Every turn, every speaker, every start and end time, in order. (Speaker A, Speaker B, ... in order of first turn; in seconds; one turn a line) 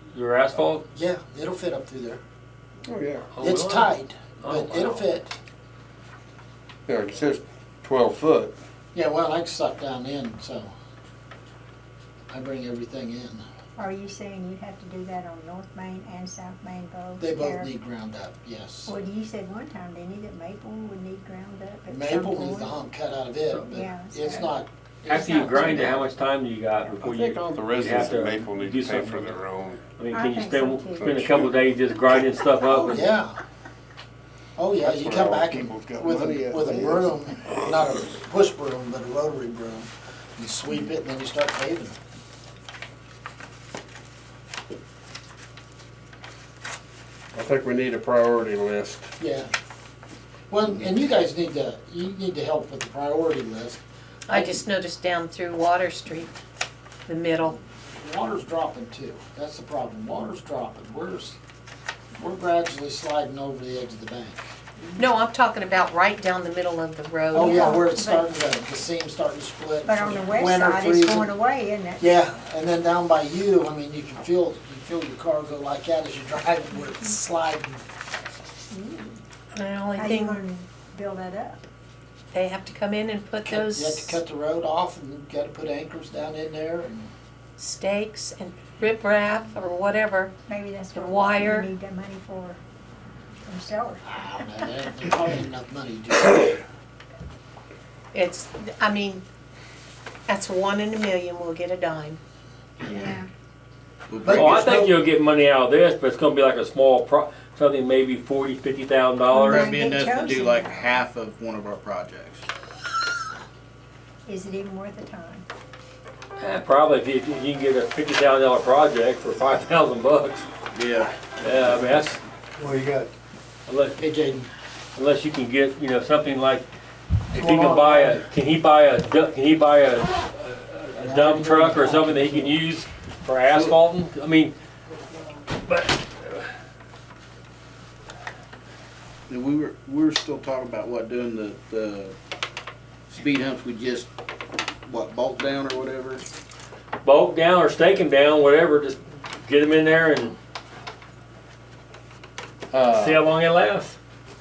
Speaker A: 0.1-0.9
Speaker B: 0.9-2.2
Speaker C: 2.9-3.3
Speaker A: 3.3-5.0
Speaker B: 3.4-5.3
Speaker C: 6.9-8.5
Speaker B: 8.9-10.7
Speaker B: 12.3-13.4
Speaker D: 13.8-17.7
Speaker B: 17.2-18.9
Speaker D: 18.9-22.7
Speaker B: 21.9-26.0
Speaker D: 23.5-24.6
Speaker A: 25.1-29.4
Speaker C: 27.0-29.9
Speaker A: 30.0-33.0
Speaker D: 30.1-31.2
Speaker C: 31.0-32.3
Speaker B: 32.6-33.4
Speaker B: 34.5-42.0
Speaker C: 34.8-37.7
Speaker C: 47.4-49.1
Speaker B: 49.2-49.5
Speaker B: 50.5-54.6
Speaker E: 54.3-56.3
Speaker E: 57.1-57.6
Speaker B: 57.9-61.4
Speaker B: 62.2-64.5
Speaker E: 65.0-67.7
Speaker B: 67.3-71.3
Speaker D: 67.4-68.3
Speaker D: 69.8-72.1
Speaker B: 72.0-77.8
Speaker D: 78.7-79.2
Speaker E: 79.5-80.4
Speaker D: 79.9-81.6
Speaker E: 82.3-84.2
Speaker B: 83.4-87.1
Speaker E: 87.6-90.3
Speaker D: 90.5-92.6
Speaker E: 90.9-91.7
Speaker D: 93.5-94.0
Speaker B: 94.0-96.6
Speaker E: 98.1-99.2
Speaker E: 100.3-102.2
Speaker F: 102.8-103.2
Speaker D: 103.0-103.2
Speaker F: 104.1-104.7
Speaker B: 104.2-105.0
Speaker A: 104.3-109.7
Speaker D: 109.3-111.0
Speaker F: 109.3-112.4
Speaker D: 114.2-115.5
Speaker A: 116.4-120.5
Speaker F: 120.7-121.8
Speaker A: 121.4-122.2
Speaker B: 122.6-123.1
Speaker A: 123.7-124.0
Speaker B: 124.0-124.5
Speaker A: 124.9-126.6
Speaker A: 127.3-134.5
Speaker B: 127.3-128.2
Speaker B: 131.0-132.5
Speaker F: 133.5-133.8
Speaker A: 135.7-136.4
Speaker F: 139.3-142.1
Speaker F: 143.1-144.1
Speaker F: 144.8-146.2
Speaker A: 147.0-150.3
Speaker C: 152.7-153.2
Speaker A: 152.9-154.0